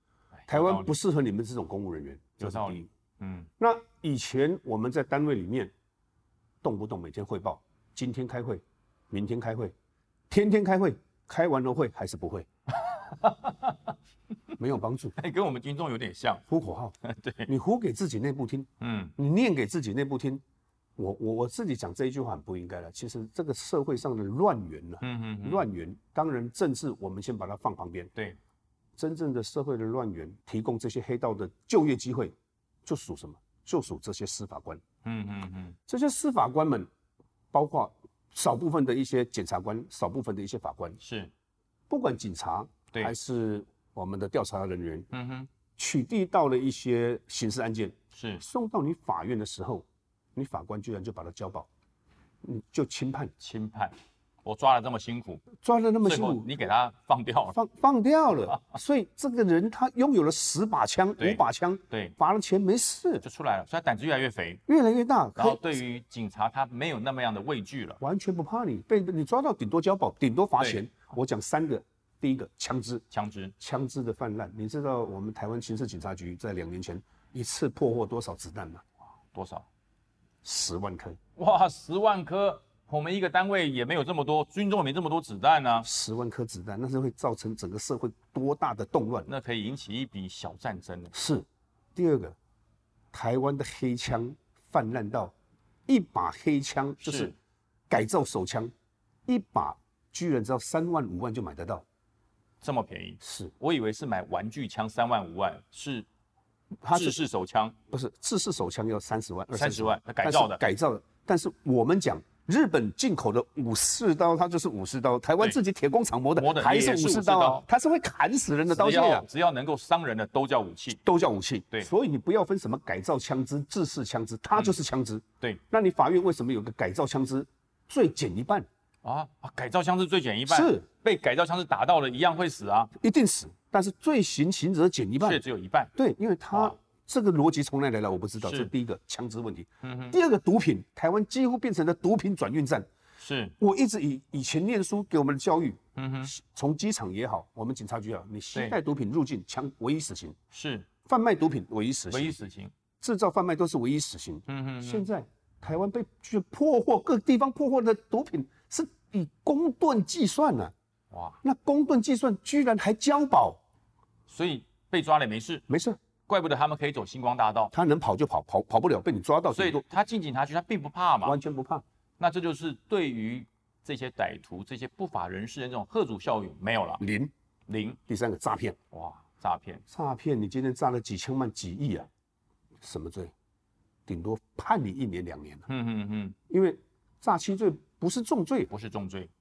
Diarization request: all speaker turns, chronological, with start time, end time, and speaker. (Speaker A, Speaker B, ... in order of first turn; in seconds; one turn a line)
Speaker A: 0.4-1.0
Speaker B: 0.5-2.9
Speaker A: 2.4-3.5
Speaker B: 3.6-5.7
Speaker B: 6.6-9.7
Speaker B: 10.3-12.5
Speaker A: 12.8-14.0
Speaker B: 14.6-15.2
Speaker A: 15.2-16.4
Speaker B: 16.5-16.9
Speaker A: 17.0-17.5
Speaker B: 17.5-20.4
Speaker A: 18.8-19.2
Speaker B: 21.0-28.1
Speaker A: 25.0-25.7
Speaker B: 29.0-32.4
Speaker B: 32.9-34.8
Speaker A: 35.0-35.8
Speaker B: 35.9-36.9
Speaker B: 37.5-41.0
Speaker A: 41.0-41.3
Speaker B: 41.9-45.1
Speaker A: 45.1-45.5
Speaker B: 45.8-51.7
Speaker A: 48.1-48.4
Speaker B: 52.4-53.3
Speaker A: 53.4-55.5
Speaker B: 55.6-56.6
Speaker A: 56.0-57.6
Speaker B: 57.5-63.2
Speaker A: 61.2-62.1
Speaker A: 63.2-64.6
Speaker B: 64.7-65.8
Speaker A: 65.4-68.0
Speaker B: 68.0-73.0
Speaker A: 73.1-73.5
Speaker B: 73.6-78.8
Speaker A: 79.3-79.7
Speaker B: 80.4-81.2
Speaker A: 81.4-85.9
Speaker B: 85.8-89.3
Speaker A: 89.3-91.1
Speaker B: 91.1-92.4
Speaker B: 93.1-95.3
Speaker B: 95.9-97.3
Speaker A: 97.0-97.3
Speaker B: 97.9-98.7
Speaker B: 99.3-101.8
Speaker A: 102.6-106.1
Speaker B: 103.2-103.5
Speaker B: 106.8-107.2
Speaker A: 106.9-107.8
Speaker B: 107.9-119.3
Speaker A: 109.5-110.7
Speaker A: 116.4-117.7
Speaker A: 118.7-121.0
Speaker B: 121.0-128.7
Speaker A: 129.0-132.9
Speaker B: 130.5-130.8
Speaker B: 133.0-135.4
Speaker A: 135.2-135.9
Speaker B: 135.9-142.9
Speaker A: 138.4-138.7
Speaker A: 139.8-140.2
Speaker A: 143.2-143.6
Speaker B: 143.6-150.4
Speaker A: 146.0-146.3
Speaker A: 150.5-150.9
Speaker B: 151.1-152.4
Speaker A: 152.1-152.7
Speaker B: 153.0-160.7
Speaker A: 154.5-155.1
Speaker A: 161.1-161.4
Speaker B: 161.4-163.6
Speaker A: 164.3-165.7
Speaker B: 165.7-166.0
Speaker A: 166.3-167.7
Speaker B: 167.7-169.8
Speaker A: 169.5-171.4
Speaker B: 171.2-171.8
Speaker A: 172.2-177.0
Speaker B: 177.0-177.3
Speaker A: 177.7-178.0
Speaker B: 178.1-178.8
Speaker A: 178.9-179.8
Speaker B: 179.9-182.1
Speaker B: 182.8-183.3
Speaker B: 184.1-185.7
Speaker A: 185.7-186.4
Speaker B: 186.5-188.7
Speaker A: 188.7-189.3